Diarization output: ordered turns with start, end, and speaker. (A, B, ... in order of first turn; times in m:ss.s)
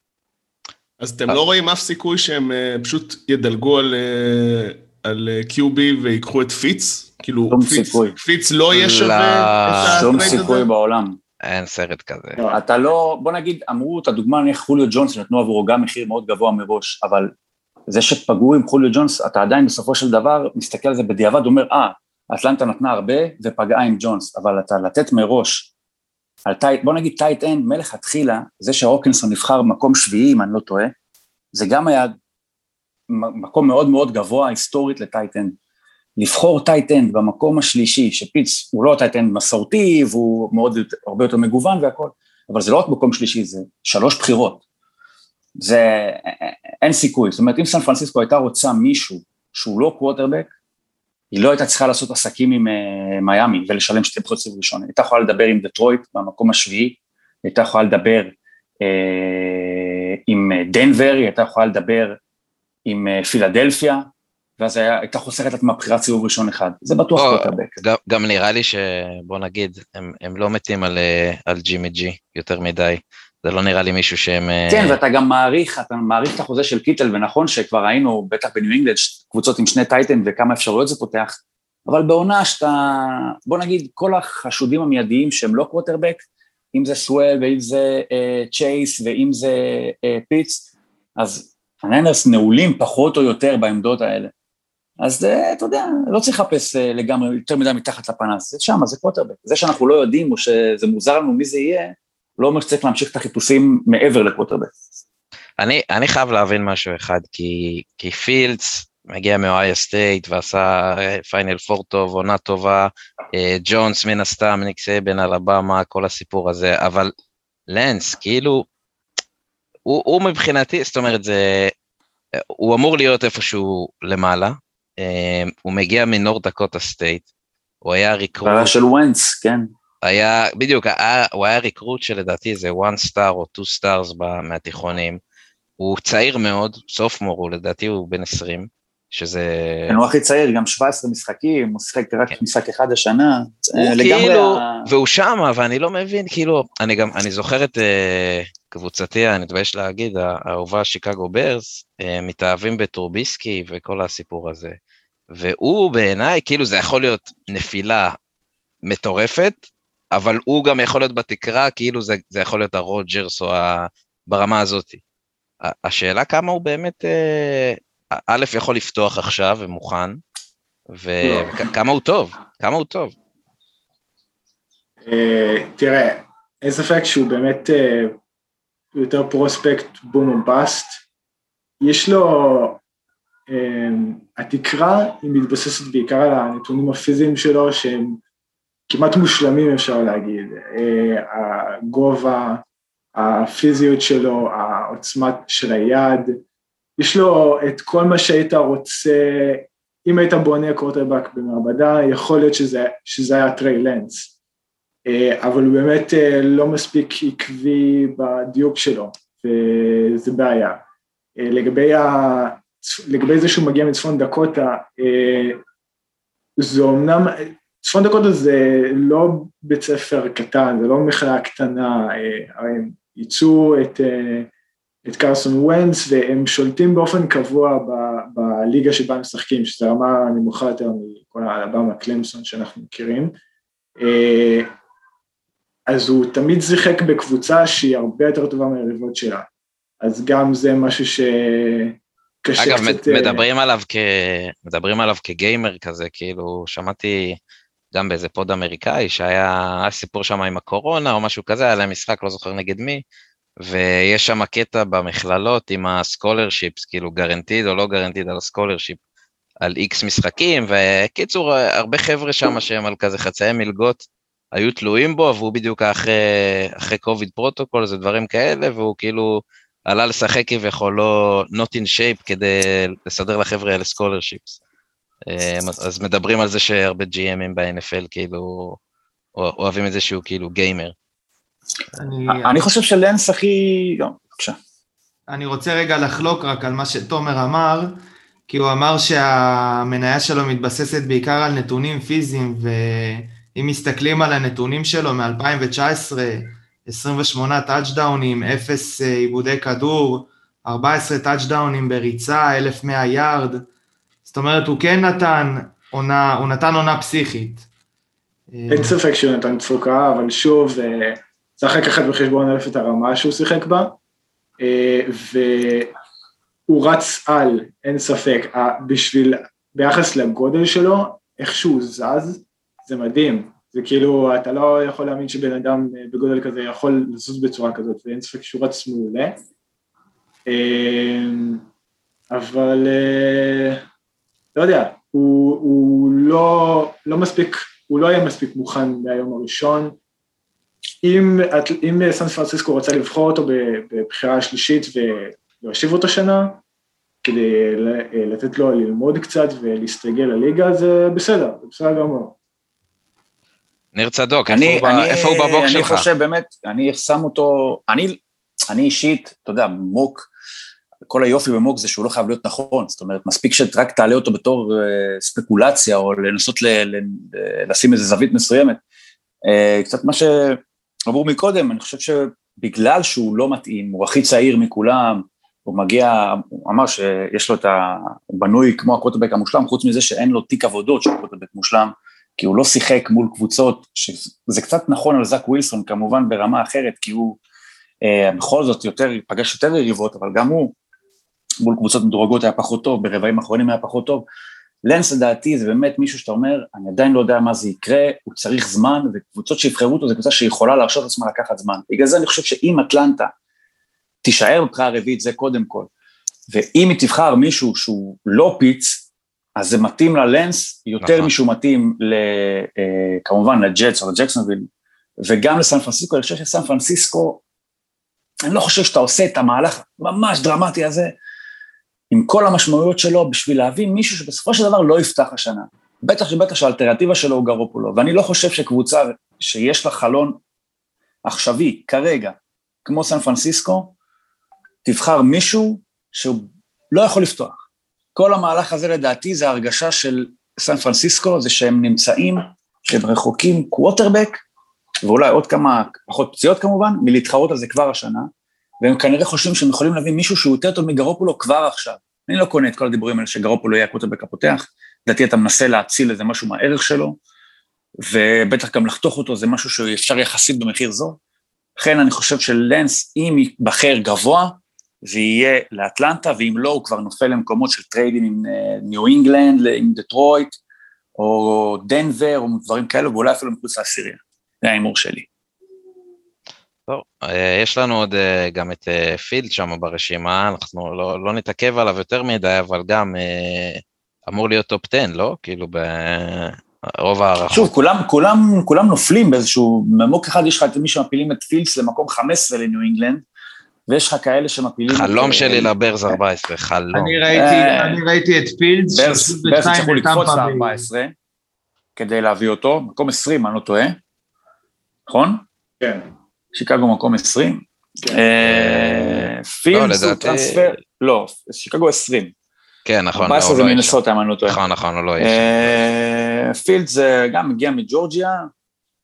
0:01.0-0:10.6 A
0:07.5-0:08.2 B
0:08.7-0:10.4 C
0:09.8-0:11.2 B
0:11.4-0:12.4 C
0:12.5-0:17.3 B
0:17.9-0:25.7 B
0:26.4-0:30.9 B
0:31.5-0:32.1 B
0:33.1-0:35.6 B
0:36.2-0:44.6 B
0:45.6-0:50.5 B
0:51.3-1:02.2 B
1:02.8-1:04.1 B
1:04.6-1:07.8 B
1:07.2-1:15.0 C
1:14.7-1:34.3 B
1:35.0-1:44.7 B
1:45.6-1:57.1 C
1:57.7-1:58.6 C
1:59.8-2:01.7 C
2:02.4-2:07.2 C
2:07.8-2:08.7 C
2:08.4-2:09.7 B
2:10.0-2:15.2 C
2:15.8-2:20.0 C
2:19.9-2:24.9 B
2:23.8-2:34.8 C
2:35.3-2:38.2 C
2:38.8-2:39.6 C
2:40.1-2:45.0 C
2:45.6-2:50.2 C
2:50.9-2:53.1 C
2:51.2-2:51.6 D
2:55.0-2:58.2 D
2:58.9-3:01.0 D
3:01.8-3:02.8 D
3:03.5-3:08.2 D
3:08.9-3:12.6 D
3:13.1-3:16.4 D
3:17.0-3:24.3 D
3:25.0-3:30.8 D
3:31.4-3:35.6 D
3:36.6-3:44.5 D
3:45.0-3:53.3 D
3:54.0-3:54.7 D
3:55.9-3:59.5 D
4:00.0-4:03.4 D
4:02.6-4:07.4 C
4:07.9-4:13.0 C
4:13.6-4:19.0 C
4:19.6-4:34.6 C
4:35.3-4:38.8 C
4:39.4-4:40.9 C
4:42.0-4:42.6 E
4:42.3-4:44.6 B
4:45.3-4:48.0 E
4:48.5-5:03.6 E
5:04.2-5:07.6 E
5:08.5-5:09.0 E
5:08.7-5:14.0 D
5:14.6-5:15.9 D
5:16.7-5:29.4 D
5:30.5-5:31.6 D
5:32.3-5:33.8 D
5:34.5-5:40.0 D
5:41.0-5:46.6 D
5:47.2-5:52.3 D
5:53.9-5:56.1 C
5:54.5-6:00.3 B
6:01.1-6:08.8 B
6:09.5-6:27.4 B
6:28.0-6:30.7 B
6:31.6-6:34.2 B
6:34.8-6:43.3 B
6:44.2-6:45.9 B
6:46.5-6:49.0 B
6:49.6-6:54.7 B
6:51.0-6:51.3 C
6:55.2-6:57.4 B
6:58.4-7:01.1 B
7:02.1-7:10.4 B
7:11.2-7:13.9 B
7:14.8-7:17.6 B
7:18.1-7:24.4 B
7:25.0-7:28.3 B
7:28.8-7:37.2 B
7:38.0-7:41.2 B
7:41.8-7:50.6 B
7:51.2-7:55.3 B
7:56.9-8:07.7 C
8:07.5-8:13.2 B
8:13.9-8:16.2 B
8:14.9-8:17.2 C
8:16.9-8:20.8 E
8:17.3-8:18.0 B
8:18.9-8:21.1 B
8:22.0-8:24.0 B
8:25.1-8:25.4 B
8:25.8-8:26.1 D
8:26.5-8:32.3 B
8:28.4-8:30.7 C
8:32.8-8:35.8 C
8:33.2-8:34.6 B
8:35.2-8:38.5 B